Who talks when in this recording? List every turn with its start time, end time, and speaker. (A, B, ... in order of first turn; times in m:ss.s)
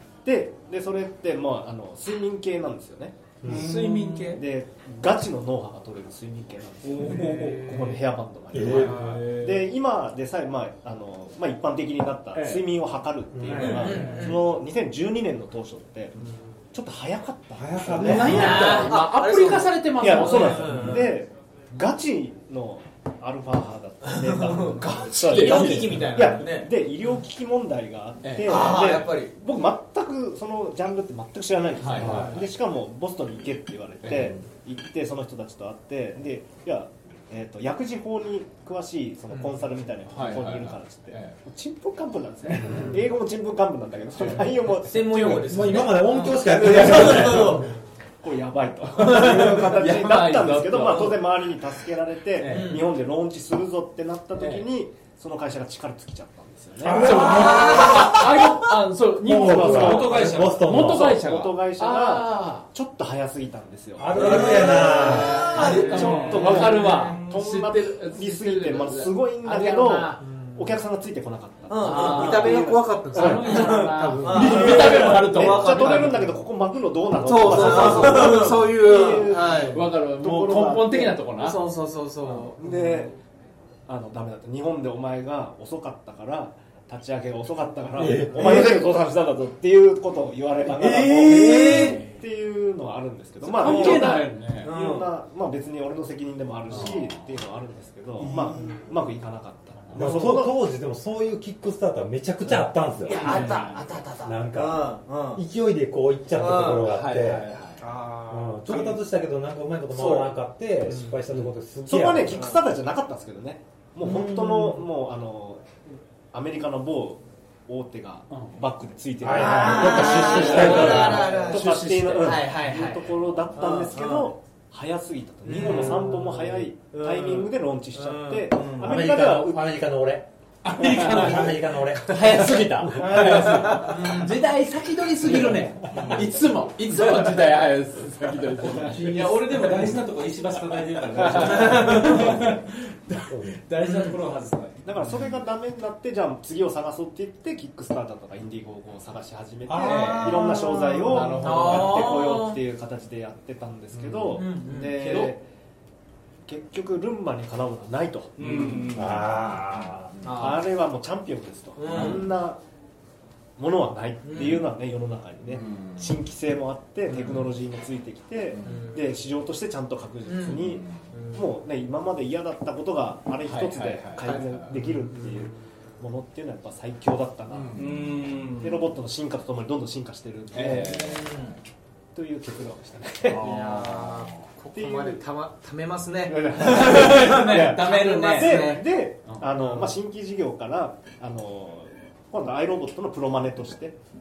0:00.2-0:03.2 A
0:03.4-0:03.7 B
0:03.5-0:04.4 C
0:03.5-0:04.4 D
0:04.4-0:18.8 A
0:06.8-0:07.8 C
0:08.5-0:09.3 B
0:08.7-0:09.6 C
0:08.9-0:09.5 D
0:12.4-0:12.6 D
0:13.3-0:14.2 B
0:13.6-0:14.4 E
0:13.9-0:14.1 D
0:17.5-0:18.9 B
0:18.0-0:21.1 D
0:18.0-0:21.1 E
0:19.9-0:58.2 A
0:24.1-0:26.7 E
0:25.2-0:26.1 D
0:28.2-0:28.8 D
0:28.4-0:29.3 E
0:31.8-0:32.4 D
0:31.9-0:32.4 B
0:34.0-0:34.3 D
0:40.1-0:41.4 D
0:42.6-0:43.0 B
0:44.8-0:47.7 E
0:45.3-0:47.7 B
0:49.0-0:51.2 D
0:50.8-0:51.2 E
0:52.4-0:52.8 D
0:52.5-0:52.8 E
0:54.4-0:54.7 D
0:56.8-0:57.9 B
0:56.9-1:02.7 D
0:57.0-0:58.8 C
0:59.1-1:01.2 B
0:59.2-1:21.2 A
0:59.3-1:00.8 C
1:04.0-1:05.5 B
1:04.1-1:06.7 E
1:04.3-1:10.2 D
1:05.7-1:07.2 C
1:11.7-1:12.8 E
1:11.8-1:16.3 D
1:11.9-1:16.0 F
1:13.3-1:16.0 E
1:17.2-1:19.8 F
1:17.3-1:18.8 E
1:17.6-1:18.8 D
1:19.3-1:21.6 D
1:21.4-1:22.6 F
1:22.6-1:23.2 A
1:23.9-1:40.5 A
1:28.0-1:28.8 B
1:30.7-1:32.0 D
1:31.5-1:31.9 E
1:33.4-1:34.7 D
1:33.6-1:35.1 E
1:38.2-1:38.8 E
1:39.9-1:43.4 B
1:40.0-1:40.4 E
1:43.0-1:45.4 E
1:43.1-1:43.8 D
1:43.2-1:43.6 C
1:44.2-1:47.5 B
1:46.4-1:46.9 E
1:46.8-1:47.8 D
1:47.8-1:49.0 E
1:48.3-1:52.6 B
1:49.9-1:50.4 E
1:51.8-2:09.7 A
1:54.0-1:54.8 B
1:59.2-2:01.5 B
1:59.3-2:04.3 E
2:01.6-2:02.3 D
2:05.4-2:09.0 E
2:08.8-2:13.6 B
2:10.6-2:11.4 C
2:10.7-2:11.5 D
2:12.1-2:19.3 D
2:13.0-2:14.0 A
2:13.7-2:14.4 E
2:15.3-2:16.1 B
2:18.6-2:20.0 B
2:19.0-2:24.8 C
2:21.4-2:22.6 B
2:23.2-2:23.6 B
2:23.8-2:24.2 E
2:24.8-2:35.4 A
2:29.7-2:31.6 B
2:29.8-2:30.3 D
2:29.8-2:32.6 E
2:31.2-2:32.1 D
2:33.9-2:34.4 B
2:34.3-2:35.3 E
2:36.5-2:38.7 A
2:38.4-2:39.7 C
2:38.9-2:40.2 B
2:40.2-2:40.6 E
2:40.3-2:42.6 A
2:41.8-2:42.3 E
2:43.6-3:01.3 A
2:44.2-2:44.7 E
2:45.5-2:46.1 D
2:47.1-2:47.4 E
2:48.6-2:49.0 E
2:50.2-2:51.4 E
2:50.8-2:51.1 D
2:53.4-2:54.8 D
2:57.5-2:57.9 D
2:57.7-2:58.9 C
3:00.5-3:01.2 D
3:00.7-3:01.6 E
3:02.1-3:03.6 A
3:03.3-3:04.4 D
3:03.4-3:06.4 F
3:04.8-3:05.2 A
3:06.2-3:14.0 A
3:06.6-3:08.7 D
3:06.7-3:08.8 E
3:09.3-3:09.8 D